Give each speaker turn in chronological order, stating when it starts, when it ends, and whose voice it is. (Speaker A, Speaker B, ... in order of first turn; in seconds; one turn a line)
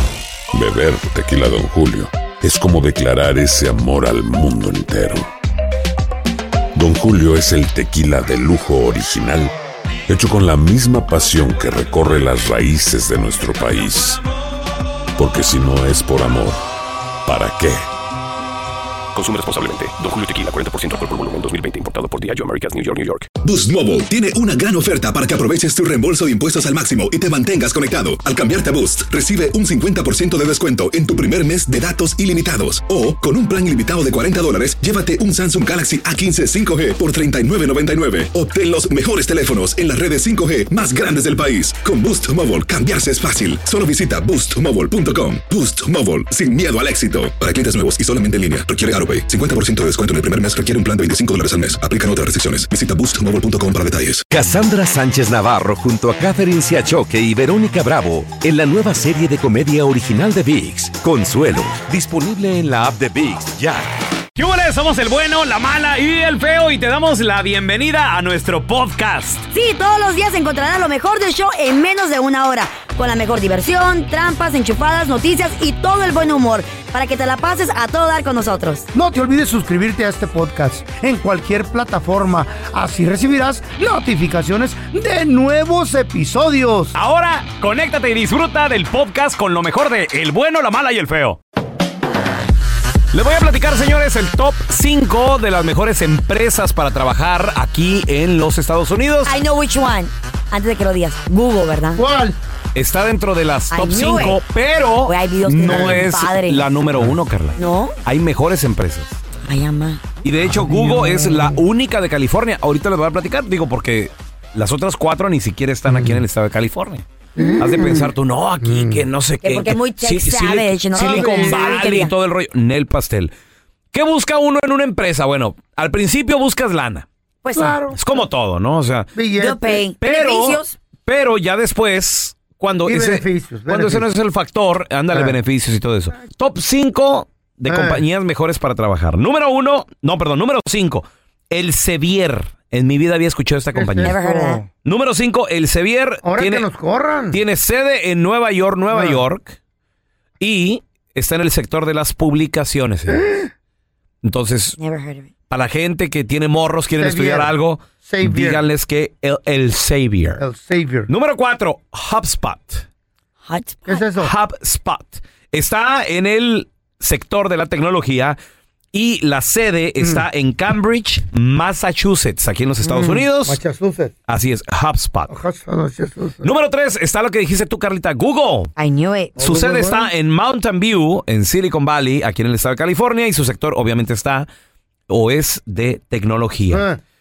Speaker A: 0.5-5.3
Speaker A: 6.8-9.5
Speaker A: 10.1-14.2
Speaker A: 15.2-16.6
Speaker A: 17.3-17.8
Speaker B: 19.1-23.3
Speaker C: 23.4-54.3
Speaker D: 54.3-63.9
Speaker E: 64.4-69.5
Speaker F: 69.5-78.9
Speaker G: 78.9-87.0
Speaker E: 87.0-91.4
Speaker E: 93.1-99.3
Speaker F: 99.3-102.0
Speaker G: 102.0-102.4
Speaker E: 102.8-109.2
Speaker F: 103.7-104.4
Speaker F: 105.1-106.7
Speaker G: 105.7-106.1
Speaker F: 107.6-107.9
Speaker F: 109.5-110.0
Speaker E: 110.2-117.0
Speaker G: 110.4-111.6
Speaker G: 115.9-116.2
Speaker G: 117.4-118.1
Speaker E: 117.6-123.3
Speaker G: 118.6-119.1
Speaker F: 119.4-122.1
Speaker G: 120.9-121.8
Speaker E: 123.9-127.1
Speaker F: 127.4-127.8
Speaker G: 127.6-128.0
Speaker E: 127.9-129.1
Speaker G: 129.1-129.8
Speaker F: 129.4-130.8
Speaker E: 130.0-144.2
Speaker G: 132.9-134.1
Speaker G: 137.7-138.0
Speaker G: 143.7-144.7
Speaker F: 144.0-144.6
Speaker E: 144.8-146.7
Speaker G: 146.2-147.4
Speaker E: 147.3-149.6
Speaker G: 148.9-149.2
Speaker E: 150.4-153.2
Speaker G: 153.1-153.5
Speaker E: 154.2-154.8
Speaker F: 154.8-155.3
Speaker E: 155.5-160.4
Speaker G: 157.0-157.5
Speaker G: 158.0-158.6
Speaker G: 160.4-161.1
Speaker E: 161.1-162.8
Speaker F: 163.4-164.0
Speaker G: 163.8-164.3
Speaker E: 164.2-168.4
Speaker E: 168.9-173.6
Speaker G: 172.8-174.1
Speaker E: 174.3-175.3
Speaker G: 175.3-176.5
Speaker E: 176.4-178.7
Speaker F: 178.8-179.4
Speaker G: 179.4-180.1
Speaker E: 179.4-184.5
Speaker E: 185.1-186.9
Speaker G: 186.7-187.0